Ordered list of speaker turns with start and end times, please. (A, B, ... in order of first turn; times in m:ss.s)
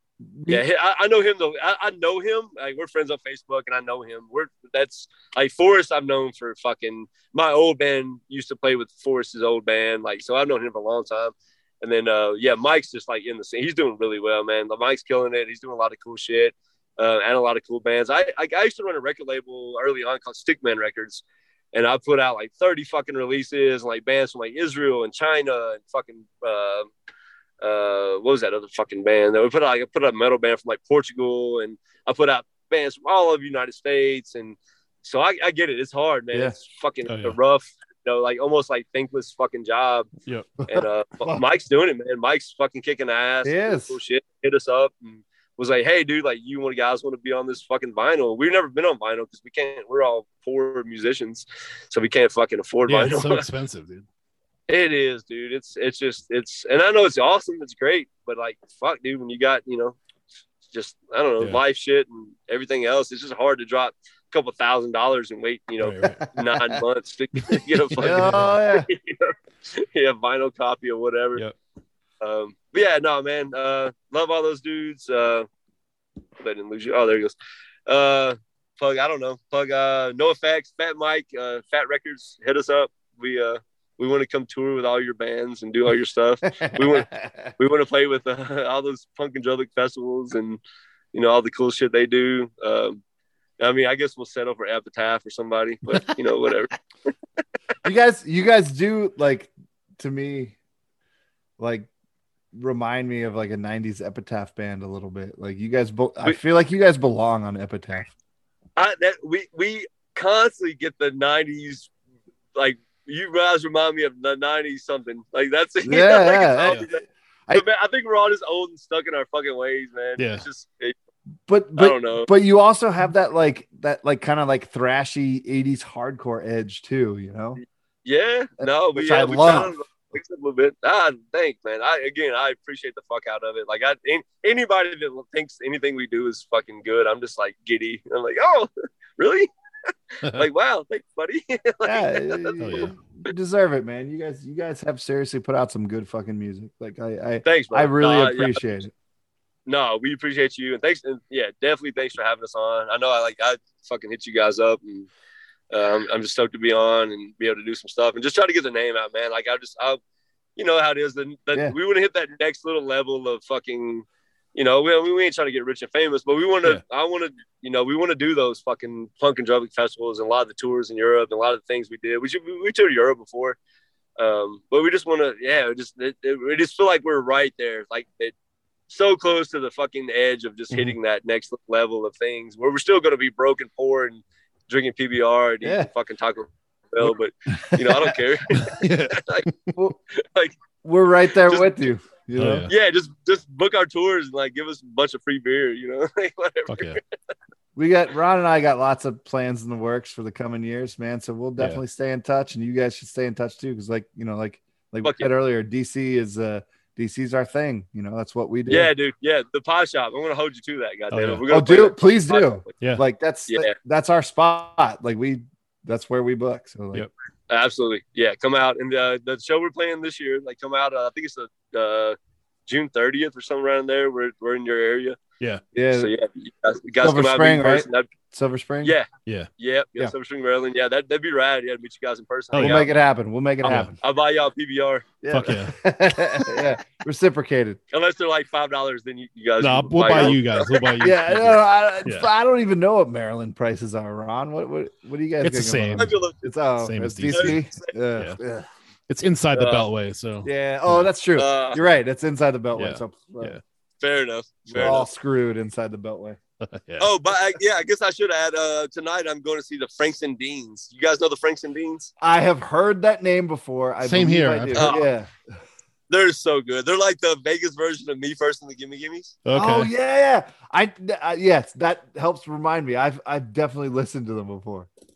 0:00.2-0:00.6 A
0:00.5-0:26.9 B
0:27.6-0:40.1 B
0:37.0-0:37.4 C
0:40.6-0:41.4 A
0:40.7-0:53.4 B
0:43.4-0:44.0 A
0:52.9-0:54.0 C
0:54.7-1:00.0 B
1:00.7-1:11.4 B
1:05.8-1:06.2 C
1:06.2-1:06.8 A
1:07.7-1:08.5 C
1:08.0-1:08.9 A
1:12.2-1:15.5 B
1:16.4-1:17.4 B
1:17.9-1:30.6 B
1:26.6-1:27.5 A
1:31.1-1:33.0 B
1:33.6-1:36.7 B
1:37.8-1:40.6 A
1:41.6-1:41.9 A
1:42.5-1:48.1 A
1:48.8-1:51.9 B
1:52.5-2:00.9 B
1:55.8-1:57.6 A
2:00.2-2:00.4 C
2:01.5-2:07.6 A
2:01.8-2:02.3 B
2:08.0-2:19.5 B
2:08.6-2:09.7 A
2:20.2-2:22.6 B
2:21.8-2:28.9 A
2:22.6-2:22.9 C
2:27.4-2:28.6 B
2:29.7-2:35.1 B
2:35.7-2:40.0 B
2:40.6-2:53.6 B
2:54.2-2:58.3 B
2:58.9-3:09.5 B
3:00.7-3:01.0 C
3:05.6-3:05.9 A
3:07.7-3:08.2 A
3:08.6-3:09.7 C
3:10.2-3:10.6 B
3:10.8-3:12.7 A
3:11.4-3:11.9 B
3:12.4-3:12.7 C
3:12.7-3:17.0 B
3:16.7-3:17.0 C
3:17.8-3:28.9 A
3:25.0-3:25.3 B
3:28.7-3:32.7 B
3:31.1-3:31.4 C
3:31.5-3:37.1 A
3:33.5-3:33.7 B
3:37.5-3:45.2 B
3:45.7-3:46.1 A
3:45.9-3:48.1 B
3:47.0-3:48.9 A
3:49.6-3:52.9 B
3:52.5-3:52.9 C
3:52.6-3:54.0 A
3:53.6-3:53.9 C
3:54.0-3:55.2 B
3:55.2-3:57.8 A
3:55.3-3:55.8 C
3:57.9-4:01.0 B
3:59.6-4:02.3 C
4:00.1-4:00.4 A
4:01.0-4:08.7 A
4:05.4-4:06.3 C
4:06.0-4:06.3 B
4:06.8-4:07.6 C
4:07.3-4:07.9 B
4:09.1-4:11.1 C
4:09.5-4:09.9 B
4:10.4-4:13.6 A
4:11.4-4:11.8 B
4:12.7-4:13.6 C
4:14.0-4:15.1 B
4:14.7-4:15.0 C
4:14.8-4:16.4 A
4:16.6-4:17.1 C
4:17.0-4:22.1 B
4:22.2-4:25.3 A
4:24.0-4:25.0 C
4:24.7-4:25.1 B
4:26.1-4:29.4 B
4:29.4-4:29.9 C
4:29.5-4:34.9 A